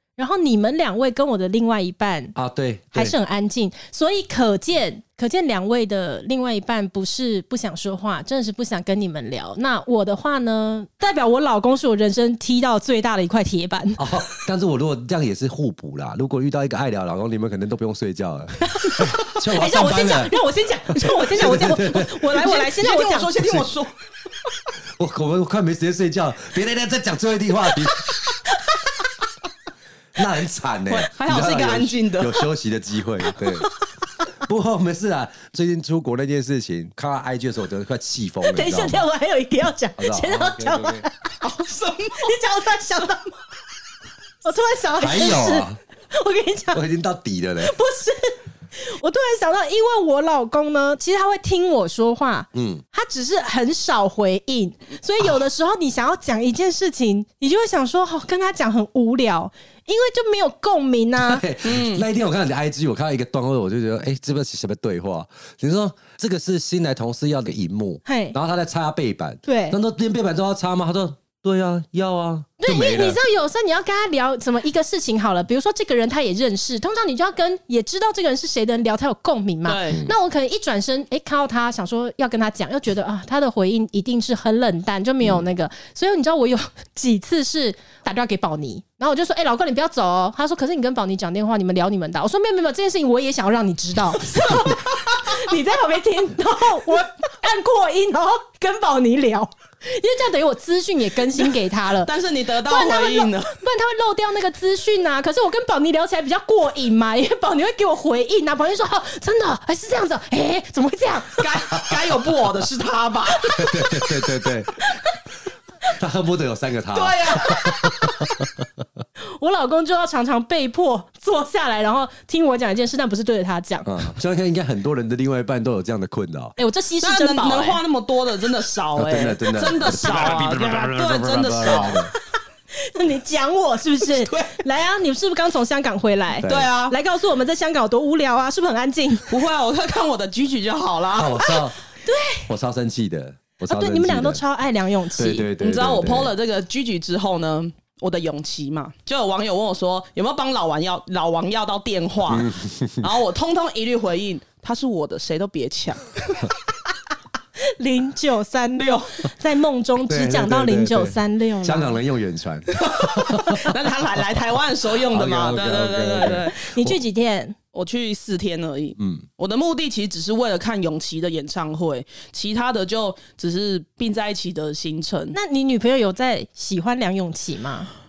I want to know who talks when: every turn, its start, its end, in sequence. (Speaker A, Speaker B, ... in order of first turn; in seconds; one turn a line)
Speaker A: 0.2-2.3
Speaker B: 2.4-3.1
Speaker A: 2.9-14.1
Speaker B: 14.0-20.4
Speaker A: 18.6-23.3
Speaker B: 20.9-22.3
Speaker C: 22.2-23.9
Speaker B: 23.4-23.7
Speaker B: 25.0-28.1
Speaker B: 30.1-33.7
Speaker C: 30.9-32.5
Speaker B: 34.4-39.1
Speaker A: 38.5-41.4
Speaker B: 40.0-41.1
Speaker C: 41.4-42.3
Speaker A: 42.2-43.4
Speaker A: 44.4-46.8
Speaker B: 45.0-45.8
Speaker B: 46.7-47.7
Speaker A: 47.6-61.4
Speaker B: 52.5-52.8
Speaker B: 61.2-73.2
Speaker C: 61.6-62.0
Speaker A: 68.0-68.3
Speaker A: 69.5-69.8
Speaker A: 72.6-102.1
Speaker C: 79.7-80.0
Speaker C: 102.0-103.6
Speaker A: 102.6-111.7
Speaker C: 111.3-113.6
Speaker B: 113.5-114.8
Speaker B: 115.9-118.6
Speaker C: 116.9-117.8
Speaker A: 119.4-123.9
Speaker B: 123.8-126.6
Speaker A: 126.6-127.8
Speaker C: 127.0-132.1
Speaker B: 128.9-132.1
Speaker A: 132.8-139.3
Speaker C: 134.2-134.6
Speaker B: 136.4-136.7
Speaker C: 136.4-136.9
Speaker C: 139.3-141.4
Speaker B: 141.1-141.8
Speaker A: 142.0-142.5
Speaker B: 142.5-144.4
Speaker A: 143.7-145.5
Speaker B: 145.1-146.3
Speaker C: 145.6-156.5
Speaker B: 152.3-153.1
Speaker A: 157.8-162.0
Speaker C: 158.8-159.1
Speaker B: 160.1-163.7
Speaker C: 162.8-166.6
Speaker B: 164.9-167.0
Speaker A: 166.5-167.6
Speaker C: 167.7-175.3
Speaker B: 169.0-169.3
Speaker A: 175.3-177.9